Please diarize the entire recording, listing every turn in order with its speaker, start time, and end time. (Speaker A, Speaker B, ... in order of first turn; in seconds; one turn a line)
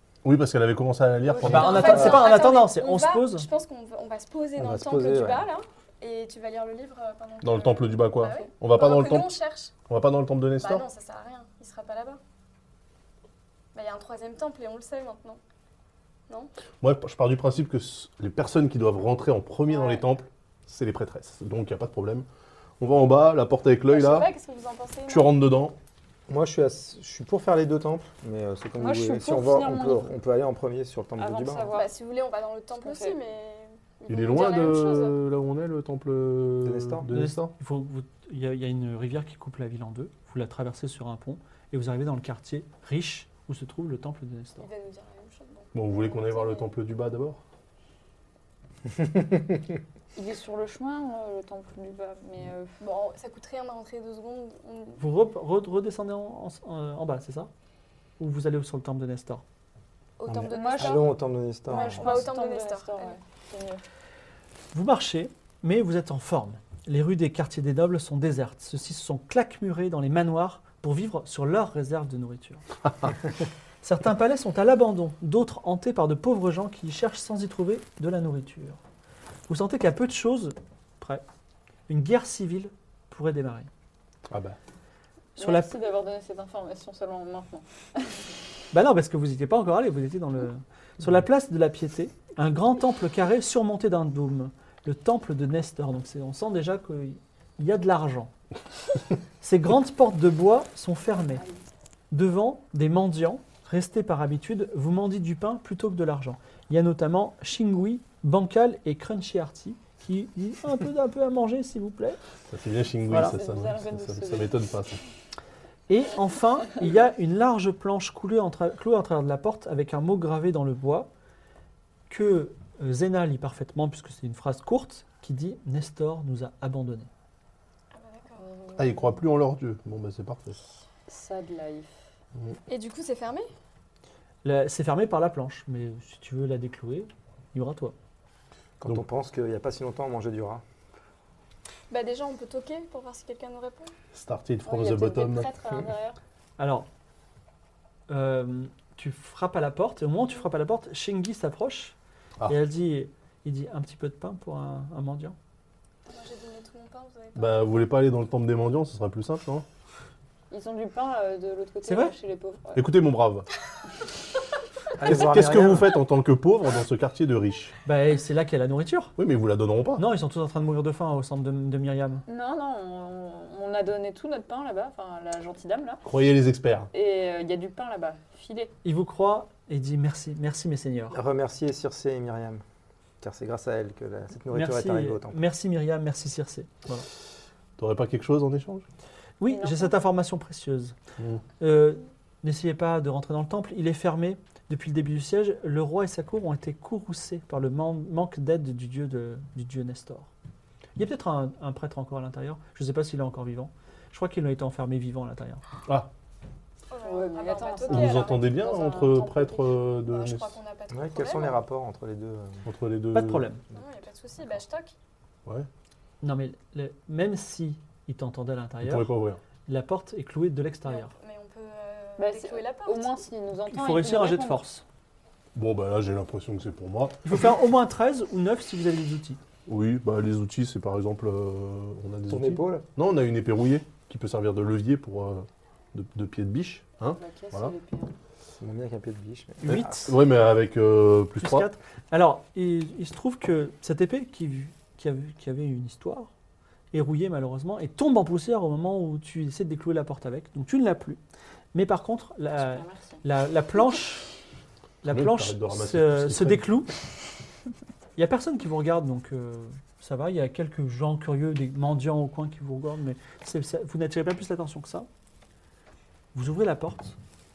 Speaker A: 0.2-2.3
Speaker B: 1.2-2.4
Speaker C: 1.4-3.5
Speaker D: 1.5-9.7
Speaker E: 4.6-5.5
Speaker A: 7.4-10.9
Speaker D: 10.6-12.2
Speaker D: 13.7-15.4
Speaker A: 16.8-22.3
Speaker D: 19.7-20.1
Speaker A: 22.8-24.3
Speaker D: 23.9-25.3
Speaker A: 25.1-25.8
Speaker E: 26.3-31.7
Speaker B: 28.8-30.1
Speaker B: 31.2-31.9
Speaker D: 31.7-35.2
Speaker B: 32.8-33.2
Speaker A: 34.1-37.5
Speaker E: 36.6-37.1
Speaker C: 37.1-44.7
Speaker D: 44.6-46.7
Speaker A: 45.7-47.4
Speaker B: 50.1-52.7
Speaker D: 52.8-55.0
Speaker C: 55.0-57.5
Speaker C: 58.2-59.4
Speaker D: 60.2-61.1
Speaker E: 60.3-62.3
Speaker B: 60.5-61.1
Speaker D: 61.7-63.2
Speaker B: 61.7-63.8
Speaker C: 64.7-72.6
Speaker C: 73.8-78.8
Speaker C: 79.5-81.2
Speaker C: 81.9-83.7
Speaker A: 84.3-84.6
Speaker C: 85.4-85.7
Speaker B: 85.4-88.2
Speaker C: 88.7-98.3
Speaker C: 99.4-101.4
Speaker C: 102.1-112.2
Speaker A: 112.5-115.0
Speaker C: 113.1-113.3
Speaker B: 113.1-114.7
Speaker C: 115.9-121.1
Speaker C: 122.1-127.1
Speaker D: 127.9-128.5
Speaker B: 128.4-129.1
Speaker A: 128.8-130.6
Speaker B: 131.1-131.9
Speaker D: 132.7-133.5
Speaker C: 134.4-137.9
Speaker E: 138.8-140.6
Speaker D: 141.9-143.9
Speaker A: 144.1-145.5
Speaker B: 144.7-146.2
Speaker C: 146.6-146.9
Speaker C: 148.1-152.0
Speaker C: 152.5-155.4
Speaker D: 156.1-157.9
Speaker A: 157.4-159.7
Speaker B: 160.5-162.9
Speaker C: 161.8-162.1
Speaker A: 162.8-163.5
Speaker E: 165.0-165.9
Speaker A: 165.0-167.8
Speaker C: 167.9-169.2
Speaker A: 169.2-170.0
Speaker C: 170.0-172.2
Speaker B: 172.3-176.0
Speaker A: 176.0-176.9
Speaker B: 176.9-178.7
Speaker C: 178.8-181.2
Speaker E: 181.1-182.6
Speaker E: 183.2-185.4
Speaker C: 184.5-187.1
Speaker A: 187.8-188.8
Speaker C: 189.4-190.9
Speaker B: 189.5-190.0
Speaker C: 191.6-200.3
Speaker C: 201.0-205.6
Speaker D: 206.9-208.6
Speaker B: 207.0-209.8
Speaker A: 207.9-210.6
Speaker D: 210.0-211.6
Speaker E: 210.9-212.7
Speaker A: 212.7-213.5
Speaker C: 213.1-213.6
Speaker D: 213.7-214.9
Speaker C: 216.2-219.1
Speaker A: 218.8-219.4
Speaker C: 219.7-221.1
Speaker D: 220.9-223.2
Speaker B: 222.2-224.6
Speaker C: 223.7-224.8
Speaker A: 225.6-227.2
Speaker C: 227.2-229.4
Speaker A: 229.7-237.7
Speaker E: 232.3-232.9
Speaker B: 237.2-238.1
Speaker E: 238.6-240.1
Speaker C: 239.6-240.1
Speaker A: 239.7-241.7
Speaker C: 241.4-246.3
Speaker C: 246.9-251.2
Speaker C: 251.7-254.3
Speaker B: 252.6-253.2
Speaker C: 255.0-256.9
Speaker A: 255.1-256.7
Speaker C: 258.2-265.1
Speaker C: 266.3-267.2